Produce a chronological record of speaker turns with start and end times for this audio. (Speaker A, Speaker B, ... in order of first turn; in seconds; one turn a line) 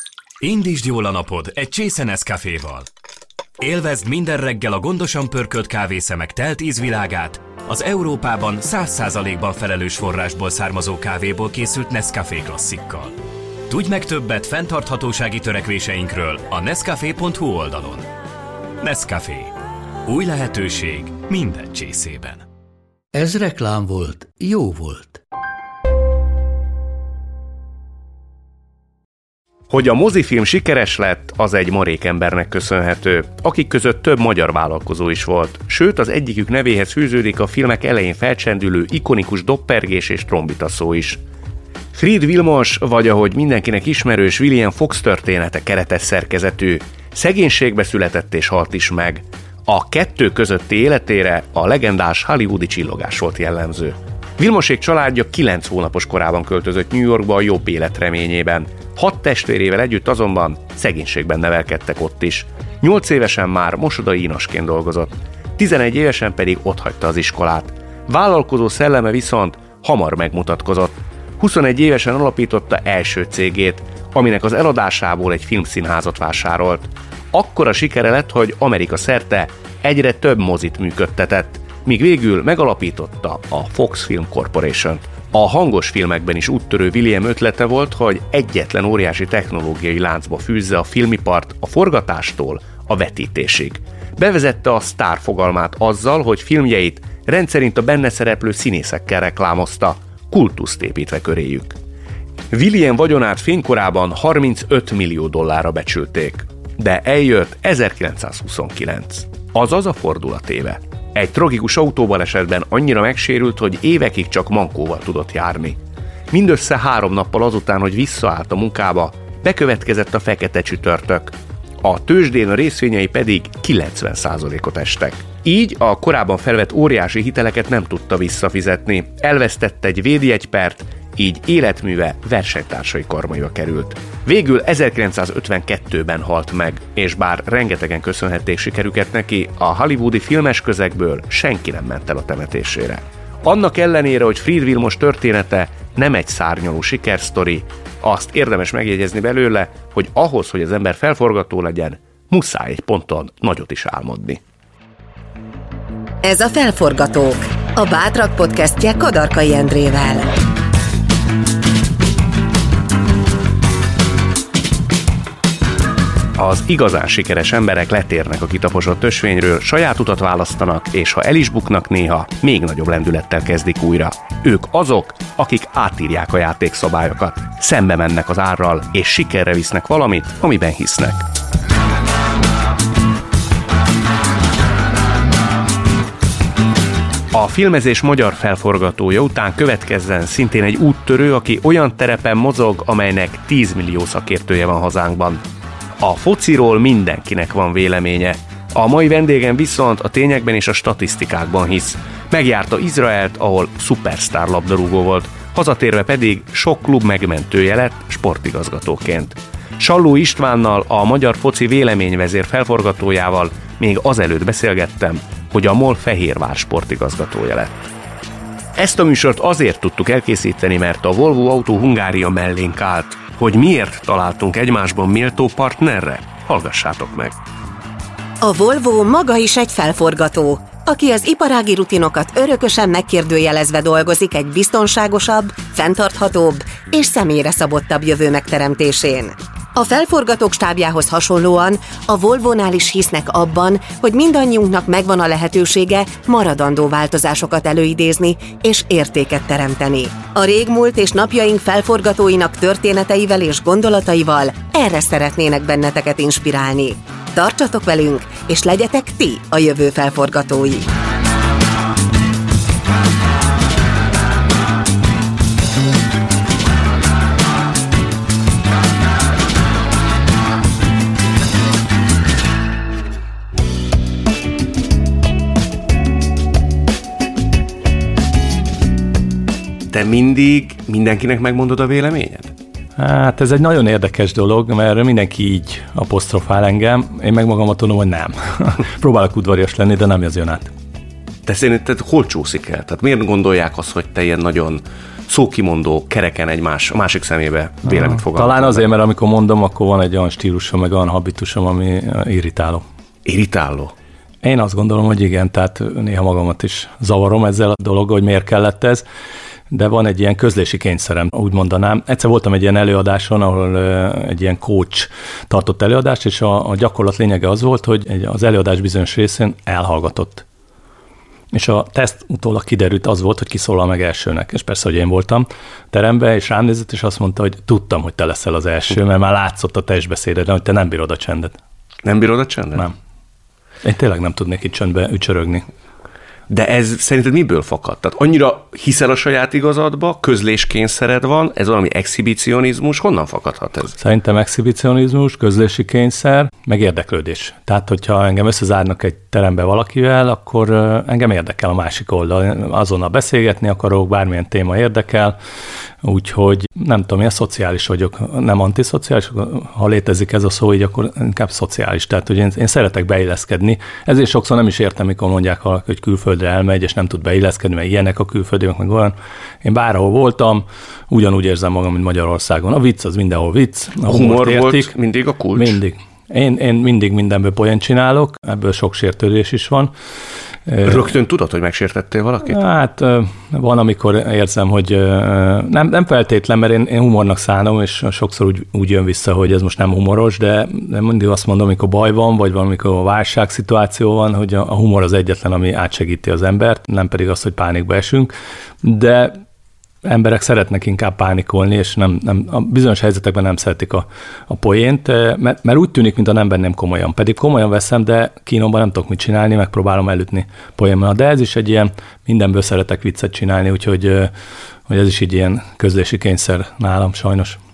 Speaker A: 0.4-2.9
Speaker A: 3.6-13.1
Speaker A: 13.7-18.1
Speaker A: 18.8-19.5
Speaker A: 20.1-22.4
Speaker B: 23.1-25.2
Speaker C: 29.7-41.2
Speaker C: 41.9-101.8
Speaker C: 102.5-115.8
Speaker C: 116.3-154.4
Speaker D: 156.2-160.3
Speaker C: 166.3-181.2
Speaker C: 187.3-195.4
Speaker C: 196.0-217.7
Speaker C: 218.8-227.4
Speaker D: 228.4-260.9
Speaker C: 279.9-282.5
Speaker E: 283.0-290.7
Speaker C: 291.4-298.9
Speaker E: 297.8-302.8
Speaker C: 303.2-303.9
Speaker E: 304.4-309.0
Speaker E: 309.7-320.4
Speaker E: 321.5-331.6
Speaker C: 332.0-332.9
Speaker E: 333.8-335.6
Speaker C: 336.5-343.9
Speaker E: 344.0-355.4
Speaker E: 356.0-374.9
Speaker C: 374.0-375.8
Speaker E: 375.5-379.9
Speaker E: 380.7-381.1
Speaker C: 380.8-382.6
Speaker E: 382.4-399.4
Speaker E: 400.0-414.3
Speaker E: 414.9-417.6